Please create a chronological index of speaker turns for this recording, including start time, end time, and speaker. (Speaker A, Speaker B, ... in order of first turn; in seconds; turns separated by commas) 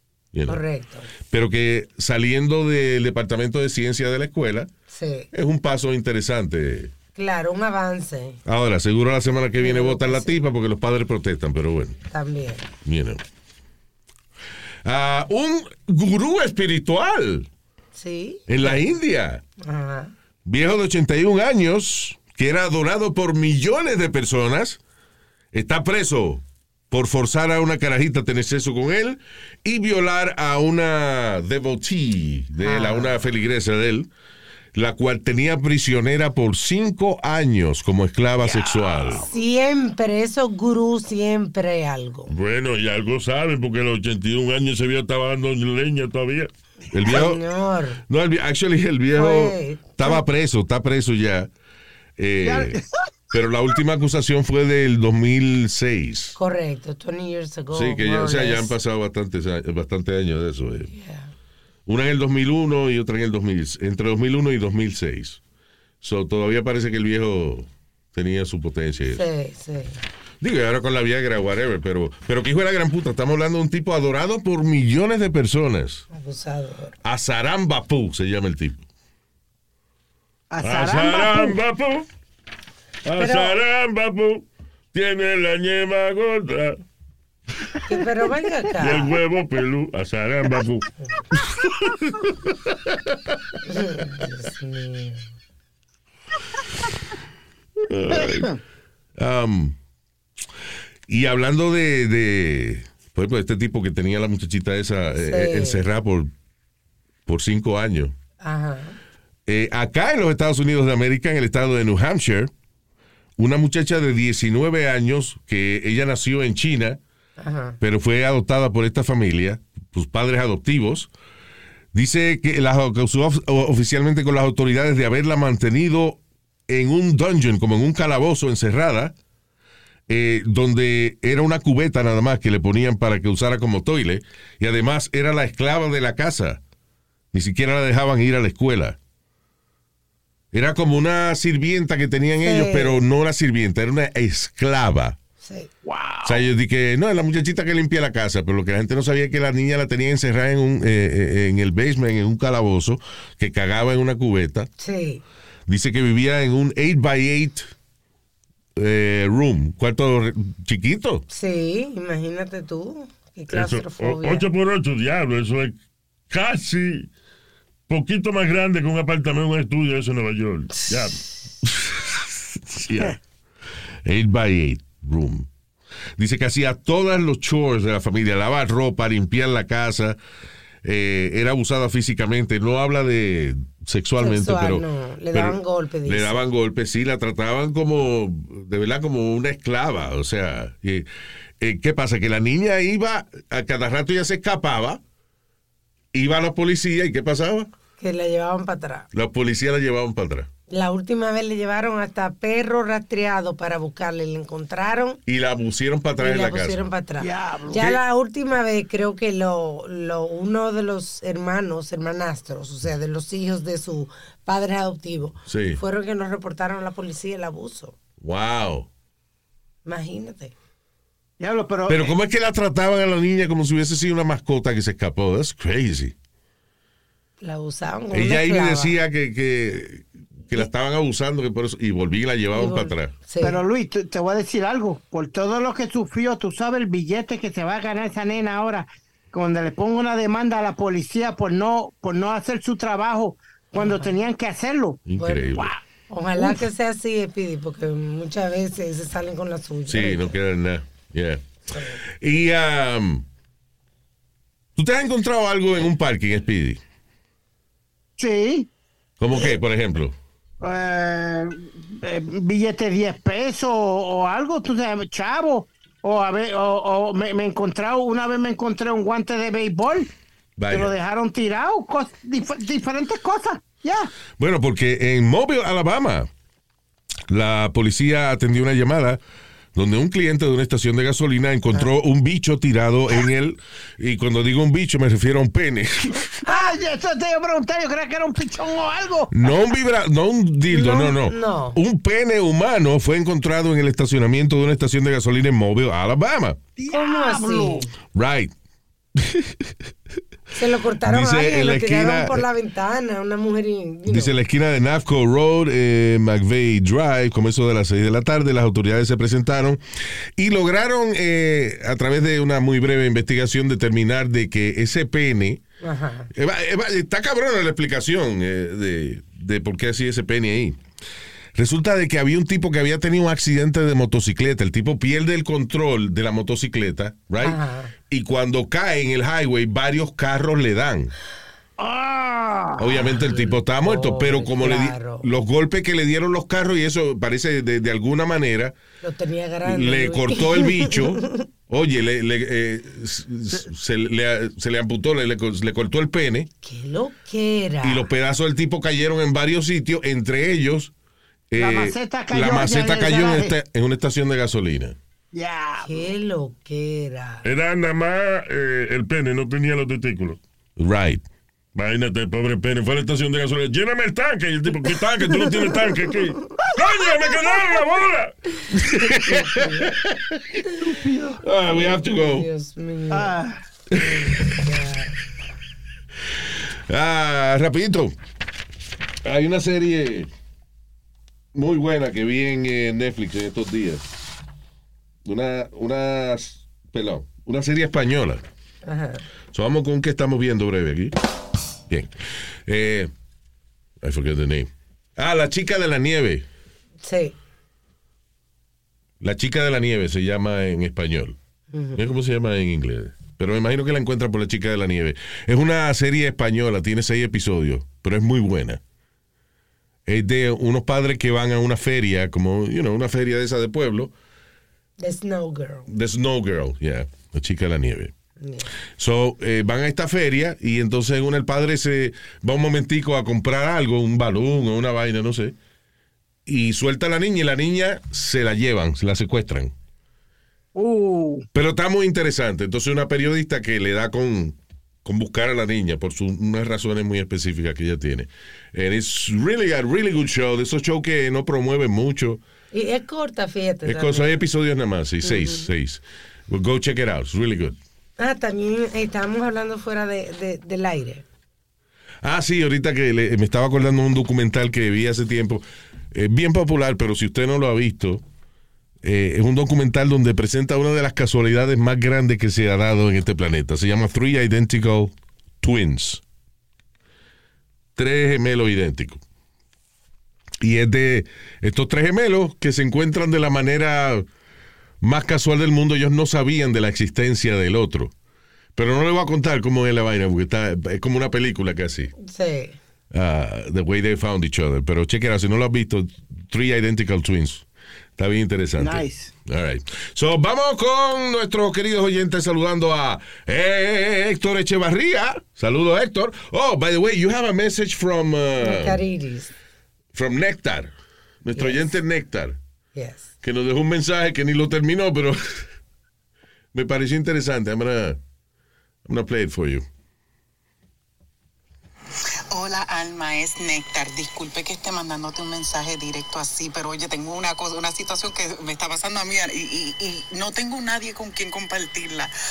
Speaker A: 0.3-0.6, Speaker B: 0.5-1.1, Speaker A: 1.3-4.7, Speaker B: 4.9-5.3, Speaker A: 5.3-6.9, Speaker B: 7.2-8.4, Speaker A: 8.4-12.0, Speaker B: 9.6-10.3, Speaker B: 12.1-12.7, Speaker A: 12.8-13.2, Speaker A: 14.8-17.5, Speaker B: 17.9-18.9, Speaker A: 18.5-19.4, Speaker B: 19.6-20.1, Speaker A: 20.4-24.8, Speaker A: 25.5-34.1, Speaker B: 32.6-33.2, Speaker A: 34.7-39.2, Speaker C: 38.4-39.3, Speaker B: 39.2-42.3, Speaker D: 42.3-46.5, Speaker A: 46.9-47.4, Speaker B: 47.1-48.0, Speaker A: 48.1-51.5, Speaker B: 49.1-50.2, Speaker A: 52.2-56.4, Speaker C: 52.4-53.0, Speaker B: 56.4-58.7, Speaker A: 57.7-60.9, Speaker B: 60.9-61.3, Speaker A: 61.9-65.4, Speaker A: 66.0-69.2, Speaker B: 69.1-70.0, Speaker A: 70.4-76.0, Speaker B: 76.1-77.0, Speaker A: 77.0-78.8, Speaker C: 80.5-81.6, Speaker D: 80.6-82.0, Speaker D: 83.0-86.8, Speaker B: 83.2-83.5, Speaker B: 87.9-89.1, Speaker D: 88.8-92.0, Speaker B: 93.7-95.3, Speaker A: 97.9-98.5, Speaker C: 98.1-98.5, Speaker A: 99.2-99.8, Speaker A: 101.1-106.3, Speaker B: 105.2-105.9, Speaker A: 107.2-108.1, Speaker B: 108.4-109.0, Speaker A: 109.5-112.5, Speaker A: 113.4-117.0, Speaker B: 117.4-117.8, Speaker A: 117.8-121.1, Speaker A: 121.9-129.1, Speaker A: 130.1-136.6, Speaker A: 137.3-139.0, Speaker A: 140.5-145.2, Speaker B: 142.4-143.0, Speaker B: 145.4-145.7, Speaker C: 145.8-146.4, Speaker A: 146.2-154.7, Speaker B: 154.8-155.2, Speaker A: 155.7-157.7, Speaker A: 158.8-161.2, Speaker B: 161.3-164.4, Speaker D: 163.5-165.8, Speaker D: 166.3-167.1, Speaker D: 167.9-171.2, Speaker A: 171.6-173.2, Speaker A: 174.0-175.5, Speaker A: 176.2-180.2, Speaker A: 180.8-191.1, Speaker B: 184.2-186.4, Speaker A: 191.6-195.0, Speaker A: 196.1-197.7, Speaker B: 198.0-199.1, Speaker A: 199.1-200.5, Speaker B: 200.7-205.2, Speaker A: 205.2-206.9, Speaker B: 206.2-217.9, Speaker C: 207.2-207.8, Speaker A: 207.7-208.0, Speaker A: 215.4-215.8, Speaker A: 218.2-218.9, Speaker B: 219.8-220.5, Speaker C: 221.4-222.1, Speaker A: 221.9-226.1, Speaker B: 227.4-229.0, Speaker A: 228.1-233.1, Speaker B: 232.5-233.6, Speaker C: 233.4-245.8, Speaker B: 243.7-244.1, Speaker A: 245.1-245.7, Speaker B: 245.2-245.5, Speaker B: 246.1-250.3, Speaker C: 246.4-246.6, Speaker A: 249.9-251.4, Speaker B: 251.7-252.0, Speaker A: 252.0-253.2, Speaker A: 254.8-256.8, Speaker C: 258.2-258.7, Speaker A: 259.2-260.2, Speaker C: 260.6-270.1, Speaker A: 270.6-270.9, Speaker C: 270.7-274.1, Speaker A: 274.4-276.3, Speaker A: 277.3-279.2, Speaker A: 279.7-286.3, Speaker B: 286.4-286.7, Speaker C: 286.4-289.5, Speaker A: 289.3-296.6, Speaker B: 290.7-291.8, Speaker C: 296.8-297.8, Speaker B: 296.9-297.9, Speaker A: 298.1-298.5, Speaker A: 299.1-299.7, Speaker B: 300.5-304.3, Speaker A: 301.0-302.4, Speaker A: 304.1-309.8, Speaker A: 310.4-315.6, Speaker B: 315.8-316.3, Speaker A: 316.3-320.8, Speaker A: 321.5-327.6, Speaker B: 327.4-327.9, Speaker A: 328.1-331.1, Speaker C: 331.8-333.1, Speaker A: 332.8-338.8, Speaker B: 333.2-335.3, Speaker B: 339.0-341.3, Speaker A: 339.6-346.5, Speaker B: 346.6-348.1, Speaker A: 347.8-350.9, Speaker A: 351.5-355.0, Speaker C: 351.5-353.5, Speaker C: 355.3-356.1, Speaker B: 355.8-357.4, Speaker D: 357.4-360.4, Speaker A: 360.8-361.2, Speaker D: 361.7-368.3, Speaker C: 366.7-367.7, Speaker A: 368.9-370.6, Speaker B: 369.2-369.9, Speaker C: 370.8-371.4, Speaker A: 371.4-372.5, Speaker B: 371.7-373.4, Speaker C: 373.1-373.6, Speaker A: 373.9-374.6, Speaker B: 373.9-375.1, Speaker A: 376.9-378.1, Speaker A: 379.2-380.3, Speaker A: 381.5-384.0, Speaker A: 385.2-388.4, Speaker B: 388.8-389.2, Speaker A: 389.5-391.1, Speaker A: 392.6-393.1, Speaker A: 394.0-396.4, Speaker B: 397.0-397.4, Speaker A: 399.2-401.4, Speaker B: 401.7-402.0, Speaker A: 401.9-408.8, Speaker A: 410.1-414.1, Speaker B: 415.0-415.9, Speaker A: 415.9-418.1, Speaker B: 418.4-418.7, Speaker A: 419.0-425.5, Speaker A: 426.4-429.7, Speaker C: 430.7-431.4, Speaker A: 431.5-442.4, Speaker B: 442.7-444.4, Speaker A: 443.8-447.8, Speaker B: 445.2-445.7, Speaker B: 448.2-451.2, Speaker A: 452.2-458.2, Speaker A: 459.0-466.2, Speaker A: 467.9-469.2, Speaker A: 470.6-474.3, Speaker A: 475.0-478.1, Speaker A: 478.8-482.1, Speaker B: 482.2-482.8, Speaker A: 483.1-487.6, Speaker A: 488.2-499.0, Speaker C: 488.8-489.3, Speaker B: 498.6-499.5, Speaker A: 500.1-500.9, Speaker A: 501.4-502.6, Speaker B: 501.6-501.9, Speaker B: 502.9-503.3, Speaker A: 503.4-505.6, Speaker A: 506.7-508.2, Speaker A: 509.0-509.9, Speaker E: 512.5-522.3